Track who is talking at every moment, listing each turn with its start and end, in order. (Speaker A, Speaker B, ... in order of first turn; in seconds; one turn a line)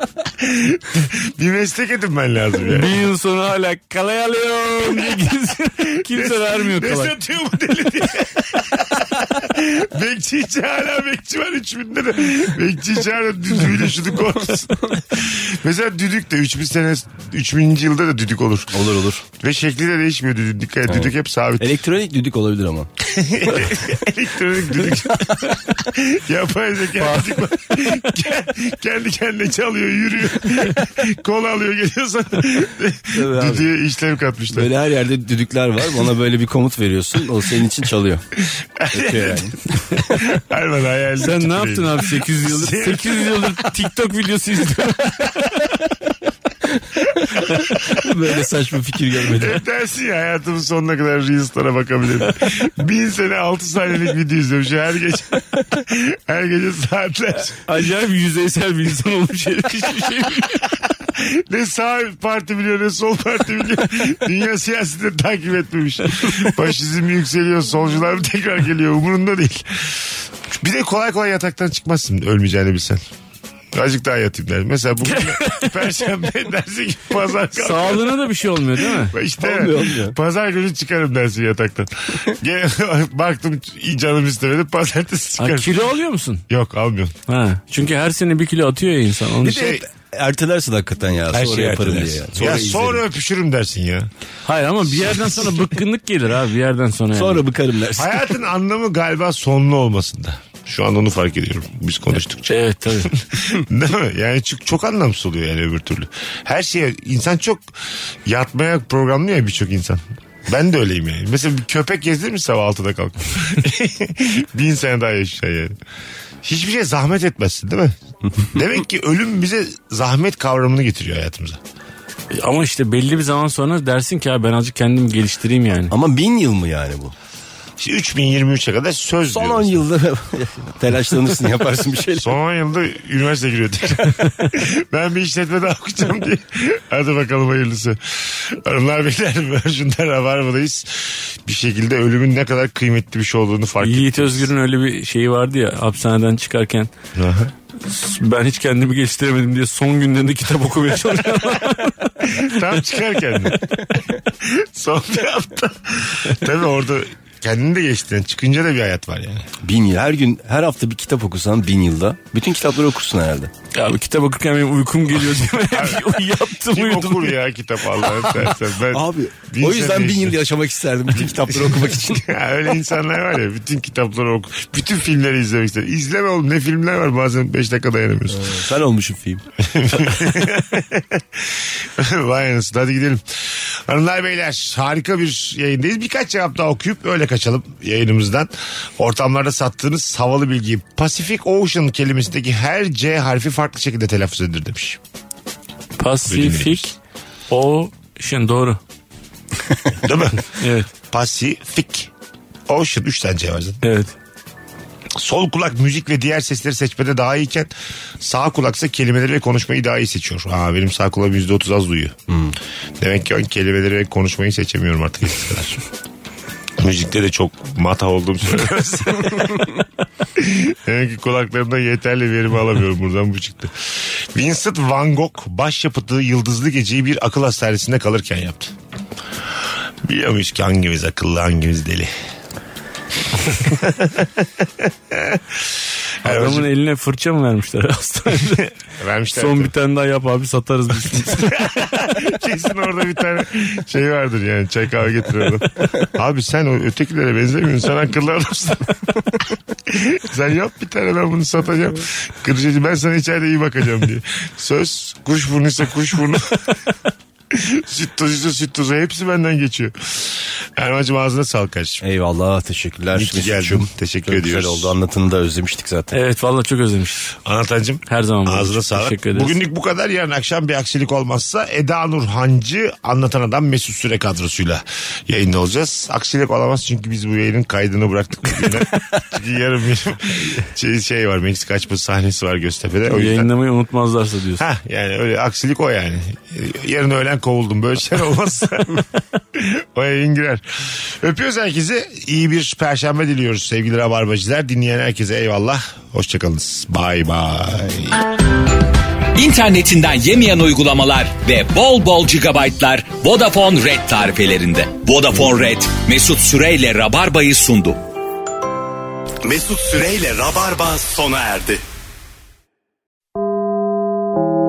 Speaker A: 0.4-3.0
Speaker B: 2.7-7.1
Speaker A: 4.8-5.2
Speaker A: 6.0-18.8
Speaker C: 18.7-19.2
Speaker A: 19.4-21.7
Speaker C: 20.9-22.9
Speaker A: 23.0-34.7
Speaker B: 27.0-27.4
Speaker C: 33.1-33.7
Speaker C: 34.5-38.2
Speaker A: 38.4-43.7
Speaker C: 38.9-39.6
Speaker B: 41.2-45.7
Speaker C: 46.7-49.6
Speaker A: 47.6-48.1
Speaker A: 49.3-57.6
Speaker B: 57.6-60.6
Speaker A: 60.8-73.0
Speaker A: 73.7-78.3
Speaker B: 75.0-75.8
Speaker B: 77.5-79.1
Speaker A: 78.9-85.8
Speaker C: 79.4-80.2
Speaker B: 85.4-86.4
Speaker A: 86.5-87.1
Speaker B: 87.3-89.6
Speaker C: 89.4-93.0
Speaker A: 89.4-89.8
Speaker A: 91.3-94.1
Speaker B: 94.4-97.4
Speaker A: 95.0-95.4
Speaker C: 97.1-98.3
Speaker A: 98.0-107.7
Speaker B: 102.5-103.1
Speaker A: 108.2-115.8
Speaker A: 116.4-118.0
Speaker A: 118.5-121.6
Speaker B: 122.3-125.9
Speaker C: 125.9-127.1
Speaker A: 127.8-129.8
Speaker C: 129.3-132.3
Speaker A: 132.2-144.5
Speaker B: 143.8-146.9
Speaker A: 147.1-147.5
Speaker B: 147.8-152.6
Speaker A: 152.3-153.6
Speaker A: 154.4-159.5
Speaker C: 159.6-163.5
Speaker B: 163.7-167.4
Speaker A: 165.6-170.4
Speaker C: 168.9-172.3
Speaker A: 171.1-178.6
Speaker C: 178.3-179.4
Speaker A: 179.6-195.0
Speaker B: 196.0-196.9
Speaker A: 196.2-196.9
Speaker B: 197.5-198.8
Speaker A: 200.0-200.4
Speaker B: 200.6-200.9
Speaker A: 201.1-202.1
Speaker A: 202.7-203.8
Speaker B: 203.8-204.1
Speaker A: 205.1-212.2
Speaker C: 212.3-212.5
Speaker A: 213.0-215.8
Speaker A: 216.8-219.7
Speaker A: 220.3-228.7
Speaker A: 230.0-232.1
Speaker A: 233.5-236.7
Speaker B: 236.2-238.7
Speaker A: 238.4-239.7
Speaker B: 239.3-241.7
Speaker A: 241.1-249.0
Speaker A: 249.9-256.6
Speaker A: 257.5-262.0
Speaker C: 262.0-266.1
Speaker A: 263.1-264.9
Speaker B: 266.1-267.3
Speaker A: 267.4-283.5
Speaker B: 268.1-269.5
Speaker B: 283.1-284.6
Speaker A: 284.6-298.2
Speaker D: 299.3-308.0
Speaker E: 309.4-311.8